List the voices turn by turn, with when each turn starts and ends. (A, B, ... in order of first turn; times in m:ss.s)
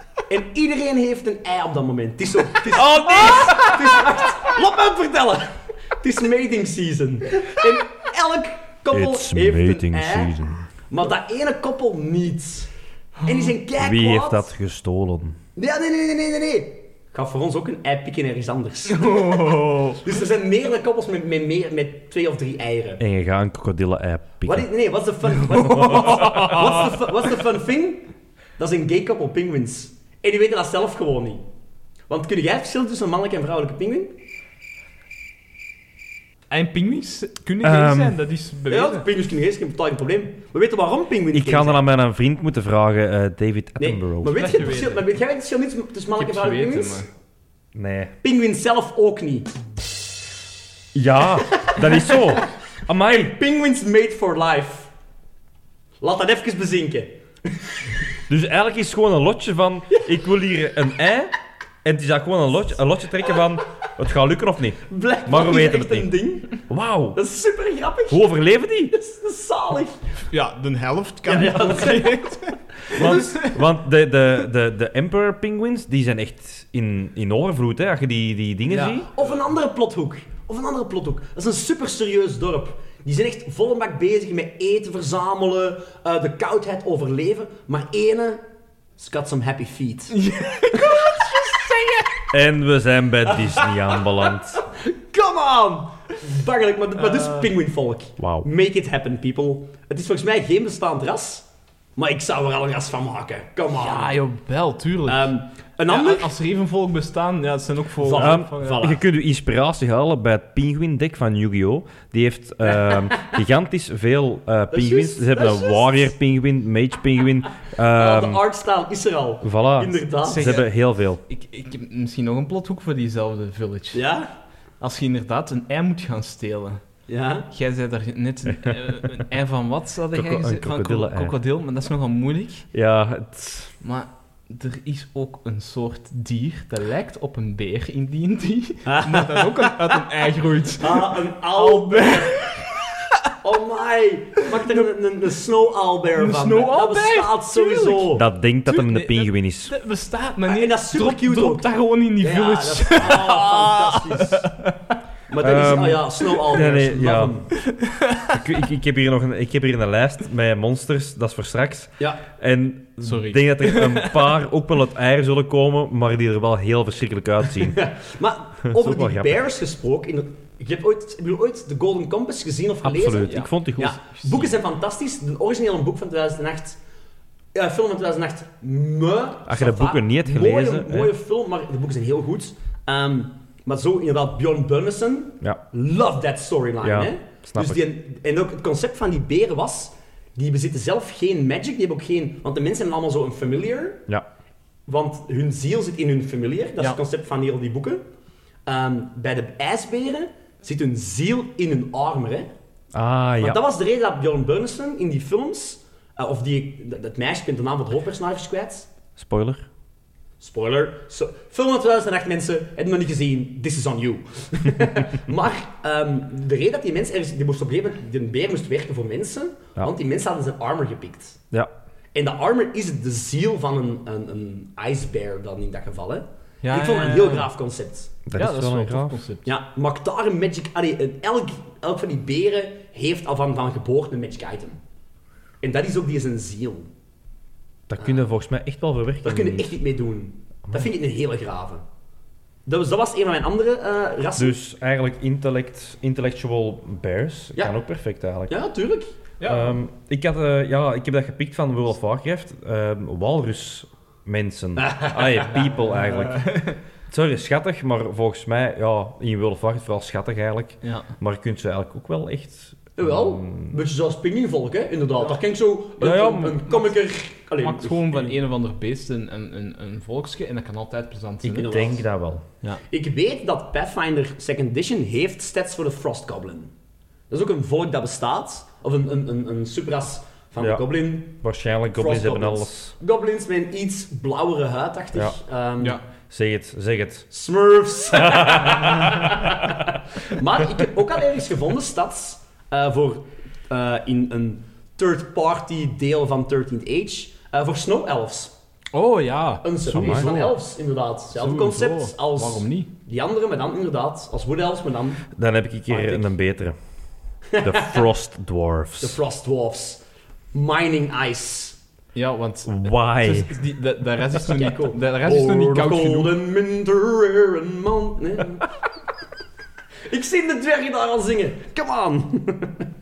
0:00.3-0:10.3 A
0:02.7-0:03.8 B
0:03.2-0:03.7 C
0:08.9-0:10.7 B
0:10.9-0:12.7 A
0:13.2-0:13.5 C
0:13.2-0:14.5 A
0:13.8-0:15.4 B
0:15.6-0:23.0 A
0:18.9-0:20.0 C
0:23.0-0:24.7 B
0:24.4-0:31.4 A
0:25.5-0:26.9 C
0:25.7-0:26.5 B
0:32.1-0:34.1 A
0:36.5-0:39.1 C
0:37.6-0:38.2 B
0:38.7-0:41.8 A
0:41.3-0:44.4 B
0:43.8-0:47.1 A
0:44.3-0:45.0 C
0:46.2-0:47.1 C
0:47.7-0:48.1 B
0:48.2-0:49.6 A
0:50.9-0:53.3 B
0:51.5-0:52.4 A
0:53.0-0:54.9 A
0:56.0-0:57.2 A
0:58.3-1:01.3 B
1:01.8-1:07.2 B
1:04.9-1:06.6 A
1:07.1-1:08.3 A
1:08.1-1:08.9 B
1:08.9-1:10.0 A
1:10.3-1:13.6 C
1:11.2-1:13.4 A
1:12.9-1:19.1 B
1:18.7-1:28.4 A
1:18.9-1:19.2 C
1:29.0-1:30.2 A
1:30.1-1:32.3 C
1:30.7-1:31.4 A
1:32.3-1:34.6 B
1:33.5-1:41.4 A
1:37.0-1:37.5 C
1:38.2-1:38.5 B
1:42.0-1:44.2 A
1:43.7-1:45.4 C
1:45.0-1:46.3 A
1:45.9-1:48.9 C
1:48.0-1:49.0 A
1:48.1-1:58.4 B
1:52.7-1:53.4 A
1:54.7-1:56.1 A
1:57.9-2:00.6 A
1:59.4-2:01.2 B
2:00.2-2:00.7 C
2:01.3-2:04.1 C
2:03.9-2:04.3 A
2:04.8-2:06.8 C
2:07.1-2:07.5 A
2:07.5-2:12.7 C
2:10.1-2:11.4 B
2:12.7-2:13.7 B
2:13.8-2:23.1 C
2:18.8-2:19.9 A
2:20.8-2:22.4 A
2:23.4-2:28.2 A
2:26.2-2:34.9 C
2:28.1-2:29.7 B
2:30.5-2:34.5 A
2:35.3-2:37.5 A
2:35.4-2:37.3 B
2:37.6-2:38.5 C
2:38.3-2:47.8 B
2:43.0-2:44.4 C
2:47.6-2:56.8 A
2:48.6-2:49.4 B
2:52.8-2:54.0 B
2:54.1-2:54.5 C
2:57.5-3:14.0 A
2:59.4-3:01.1 B
3:06.8-3:07.8 B
3:14.9-3:18.0 A
3:18.6-3:22.5 A
3:22.9-3:23.6 B
3:23.4-3:28.9 A
3:29.2-3:29.7 B
3:30.4-3:41.4 A
3:42.1-3:48.1 A
3:46.6-3:47.5 C
3:48.2-3:49.2 B
3:48.4-3:49.5 C
3:49.4-3:54.8 A
3:55.6-3:56.9 A
3:57.9-3:59.8 B
3:59.2-4:01.8 A
4:02.6-4:04.6 A
4:04.4-4:08.5 B
4:08.5-4:09.1 A
4:09.4-4:09.8 C
4:09.4-4:16.5 B
4:14.8-4:15.5 A
4:15.6-4:16.8 C
4:17.1-4:23.8 B
4:20.8-4:21.1 C
4:23.0-4:28.4 A
4:26.0-4:26.6 B
4:26.7-4:26.9 C
4:27.6-4:31.8 C
4:31.4-4:32.4 B
4:31.5-4:32.0 A
4:32.9-4:36.7 A
4:37.3-4:41.4 A
4:40.6-4:42.9 B
4:41.9-4:46.0 A
4:46.3-4:47.3 B
4:47.3-4:58.5 A
4:48.1-4:50.0 B
4:58.9-5:00.6 C
4:59.6-5:05.2 A
4:59.9-5:00.3 B
5:01.3-5:02.9 C
5:05.3-5:06.8 B
5:05.9-5:06.3 A
5:07.5-5:08.0 A
5:07.6-5:09.2 B
5:09.0-5:10.0 A
5:10.5-5:11.8 A
5:12.1-5:16.3 C
5:12.6-5:13.5 B
5:14.4-5:18.7 A
5:20.1-5:22.9 A